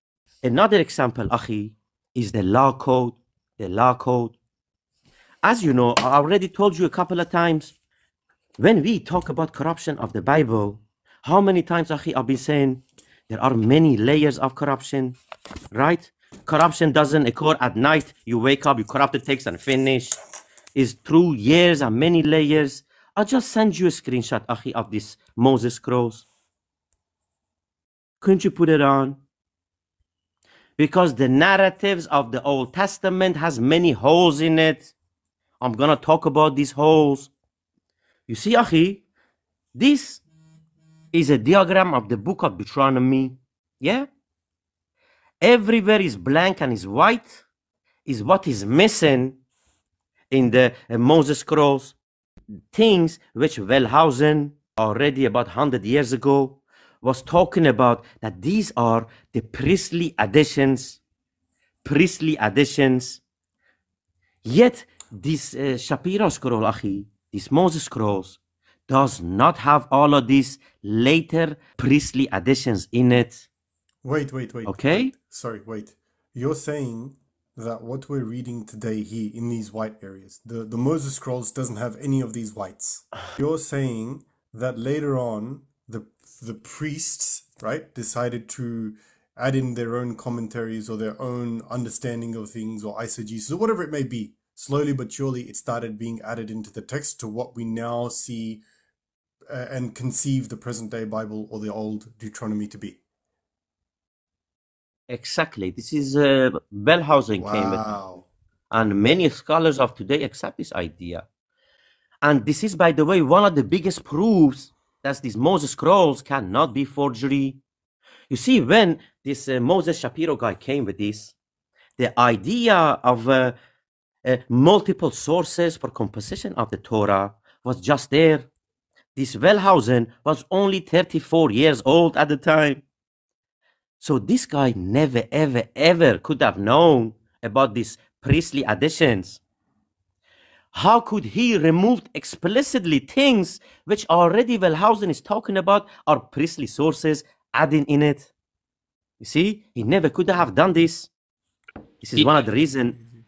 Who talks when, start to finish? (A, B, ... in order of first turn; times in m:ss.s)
0:00.4-0:04.4 A
0:05.4-0:07.7 A
0:08.6-0:15.2 A
0:15.7-0:20.2 A
0:20.8-0:26.3 A
0:28.2-0:29.2 A
0:30.8-0:34.9 A
0:35.6-0:37.3 A
0:38.3-0:39.0 A
0:39.7-0:40.2 A
0:41.1-0:44.1 A
0:45.4-0:47.4 A
0:48.1-0:49.4 A
0:50.3-0:52.0 A
0:52.7-1:01.0 A
1:01.8-1:03.2 A
1:04.4-1:13.5 A
1:14.0-1:38.6 B
1:14.7-1:15.1 A
1:39.5-1:43.0 B
1:45.1-1:47.8 A
1:47.4-1:48.3 B
1:48.7-1:51.3 A
1:52.2-1:57.6 A
1:58.3-2:01.4 A
2:02.0-2:03.5 A
2:04.2-2:08.5 A
2:09.2-2:12.8 A
2:14.0-2:19.4 A
2:20.7-2:28.3 A
2:29.2-2:31.1 A
2:32.0-2:33.0 A